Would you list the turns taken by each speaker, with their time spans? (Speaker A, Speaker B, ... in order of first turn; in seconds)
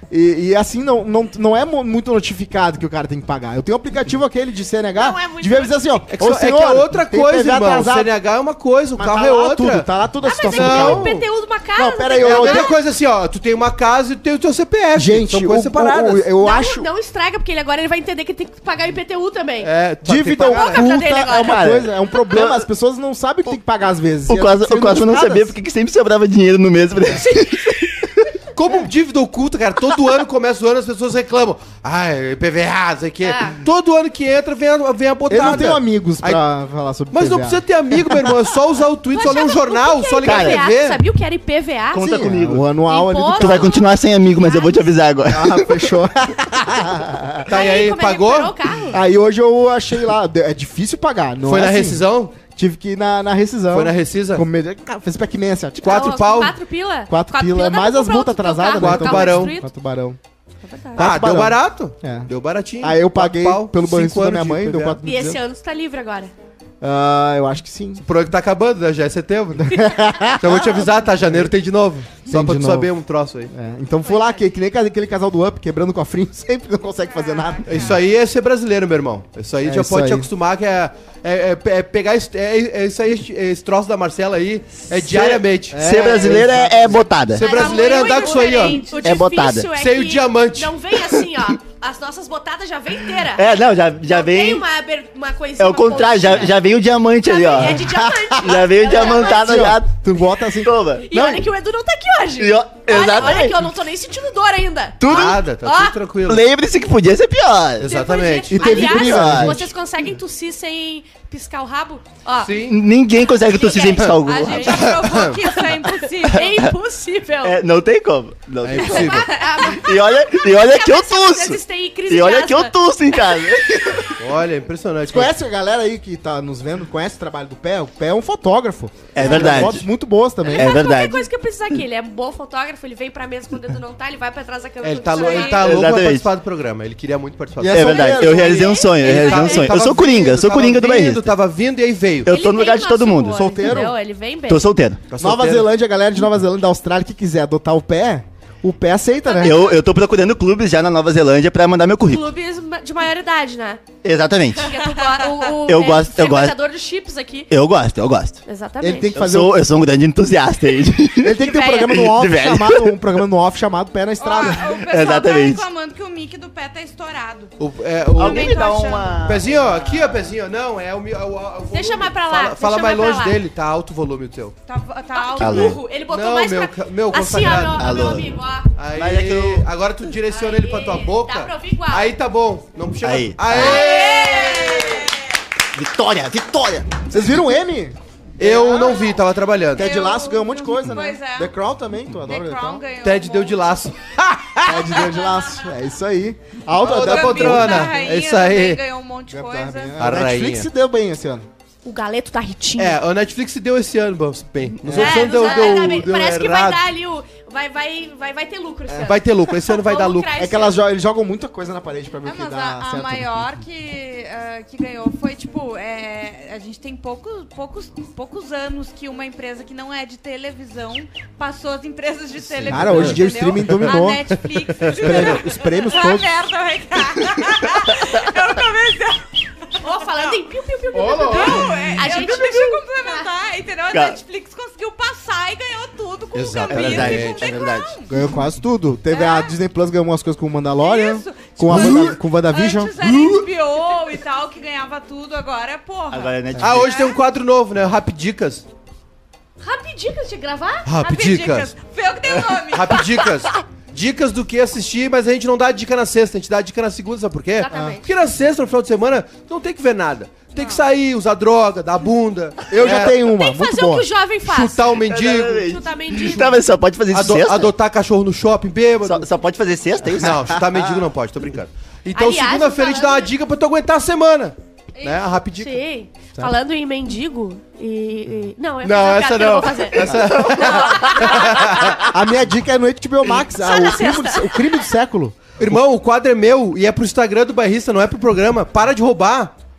Speaker A: 0.1-8.1, 8.9-11.2, 11.8-12.7, 14.9-16.9, 20.0-25.6, 35.3-38.4, 42.0-43.7, 45.3-47.5, 48.9-56.2, 57.1-60.2, 60.9-62.3, 62.8-65.4, 66.8-68.0, 69.7-71.5, 72.2-72.9, 73.5-78.0, 79.6-80.3, 85.0-87.0, 97.6-98.6, 99.2-101.5, 108.5-109.7, 125.1-130.7, 137.6-138.7, 143.3-144.0, 145.2-149.7, 158.8-159.6, 161.2-164.8, 187.1-188.9, 189.7-192.8, 194.6-198.0, 199.3-201.5, 204.8-205.3, 210.4-213.4, 222.7-224.4, 224.9-226.3, 238.1-243.0, 257.7-258.0, 262.7-264.1, 282.0-285.8
Speaker B: 5.0-6.1, 10.2-12.8, 16.4-19.7, 20.5-21.6, 33.2-33.6, 39.1-42.0, 42.9-44.9, 47.5-49.0, 55.8-59.7, 60.6-61.1, 65.0-66.3, 87.3-96.6, 97.2-99.7, 101.0-105.0, 105.6-106.0, 107.8-112.7, 113.5-117.6, 118.8-122.7, 129.2-129.7, 130.4-135.7, 137.8-139.7, 142.3-144.7, 149.2-149.8, 152.1-153.8, 154.5-157.5, 158.4-159.1, 161.4-161.9, 171.7-173.4, 175.1-178.7, 180.3-182.1, 183.5-185.1, 201.8-203.0, 204.9-210.8, 229.8-233.3, 249.6-250.9, 257.6-258.0, 262.9-264.9, 265.6-266.6, 272.1-273.3, 275.5-282.0, 283.5-284.9
Speaker C: 6.1-9.9, 10.5-11.2, 12.2-16.3, 19.6-20.8, 28.5-36.4, 37.1-41.0, 47.5-48.6, 51.4-52.3, 53.7-54.4, 55.8-56.6, 58.8-59.5, 61.0-65.0, 68.0-69.9, 70.4-73.5, 77.7-89.0, 89.7-90.8, 105.0-106.5, 107.8-109.1, 112.4-112.8, 114.6-115.4, 118.6-119.3, 124.2-125.3, 134.8-142.3, 145.1-145.7, 167.6-174.5, 176.1-177.9, 178.8-184.4, 188.4-189.9, 193.0-195.0, 196.8-198.8, 200.0-200.7, 202.8-206.9, 209.0-210.4, 222.6-223.2, 224.8-225.3, 230.9-232.0, 236.3-237.5, 241.7-242.2, 243.0-243.4, 246.6-248.6, 250.8-251.7, 252.7-263.1, 264.4-265.7, 267.1-269.3, 270.1-275.8, 278.8-282.1, 285.6-289.5
Speaker D: 21.3-22.6, 24.3-28.3, 40.2-40.7, 41.9-42.6, 43.3-45.8, 85.1-87.7, 89.0-89.7, 93.2-94.7, 95.6-100.0, 100.6-101.0, 102.4-103.7, 105.0-105.4, 106.2-108.0, 108.9-109.6, 112.7-114.8, 116.4-116.7, 117.4-124.2, 129.1-129.9, 130.5-131.3, 135.6-136.3, 137.7-141.3, 142.2-143.8, 144.5-145.0, 149.4-152.3, 154.0-154.8, 155.5-156.6, 157.5-158.4, 159.2-163.0, 164.8-165.6, 168.2-170.0, 175.4-175.8, 177.8-178.3, 178.9-179.7, 183.0-183.9, 185.7-187.1, 233.9-234.2, 236.7-238.0, 246.1-246.9, 265.0-267.7, 269.0-271.0, 280.4-281.2
Speaker E: 77.1-77.6, 87.5-88.9, 114.2-116.6, 135.1-135.7, 164.2-167.5, 168.2-169.2, 174.7-175.8, 183.5-185.2, 188.6-189.2, 189.7-191.5, 192.3-193.9, 195.0-195.6, 196.8-199.9, 212.2-230.4, 231.1-238.1, 239.1-239.5, 240.8-247.2, 251.0-253.2, 260.5-260.8